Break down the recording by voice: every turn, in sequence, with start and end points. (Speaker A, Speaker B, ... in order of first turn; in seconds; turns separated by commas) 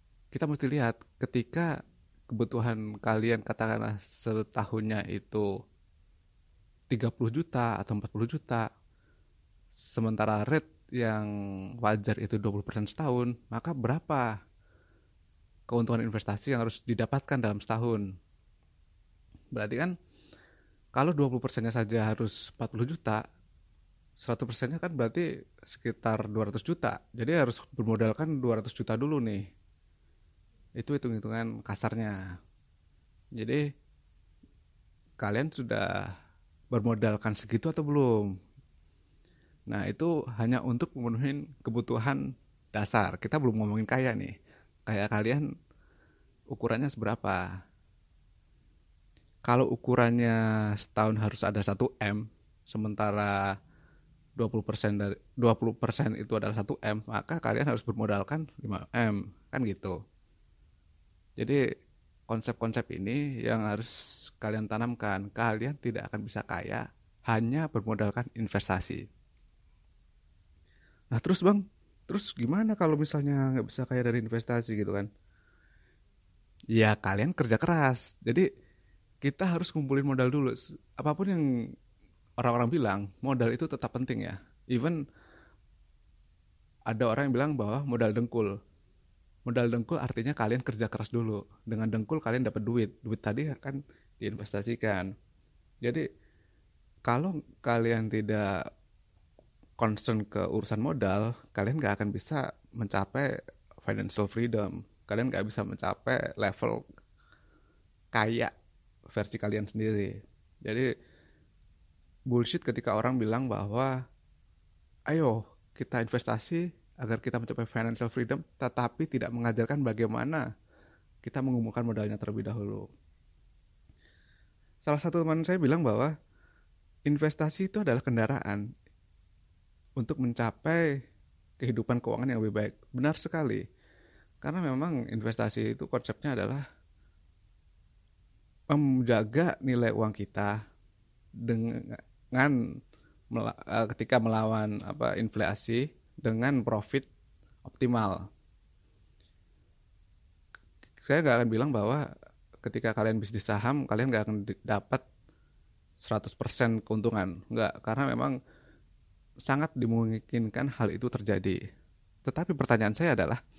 Speaker A: 0.3-1.7, Speaker A: 2.3-5.5, Speaker A: 6.9-8.6, Speaker A: 9.9-11.3, Speaker A: 11.8-14.3, Speaker A: 15.7-18.1, Speaker A: 19.5-19.9, Speaker A: 20.9-23.2, Speaker A: 24.2-29.4, Speaker A: 30.8-32.1, Speaker A: 33.3-33.6, Speaker A: 35.2-35.9, Speaker A: 36.7-38.3, Speaker A: 39.7-42.2, Speaker A: 42.7-44.3, Speaker A: 44.9-45.4, Speaker A: 46.5-47.4, Speaker A: 49.5-53.4, Speaker A: 54.4-60.0, Speaker A: 62.3-69.0, Speaker A: 71.1-75.1, Speaker A: 76.7-78.5, Speaker A: 79.2-81.4, Speaker A: 82.4-85.0, Speaker A: 86.9-88.5, Speaker A: 89.5-95.1, Speaker A: 97.1-98.5, Speaker A: 99.8-103.3, Speaker A: 103.8-106.8, Speaker A: 108.1-108.5, Speaker A: 109.1-110.9, Speaker A: 112.3-113.9, Speaker A: 115.1-120.5, Speaker A: 121.2-122.9, Speaker A: 124.8-126.1, Speaker A: 127.1-128.7, Speaker A: 130.0-130.9, Speaker A: 131.6-133.6, Speaker A: 134.4-136.6, Speaker A: 138.7-140.5, Speaker A: 141.4-142.6, Speaker A: 143.3-147.1, Speaker A: 147.6-148.2, Speaker A: 151.0-152.0, Speaker A: 152.6-155.0, Speaker A: 156.0-158.3, Speaker A: 159.4-161.6, Speaker A: 162.2-163.4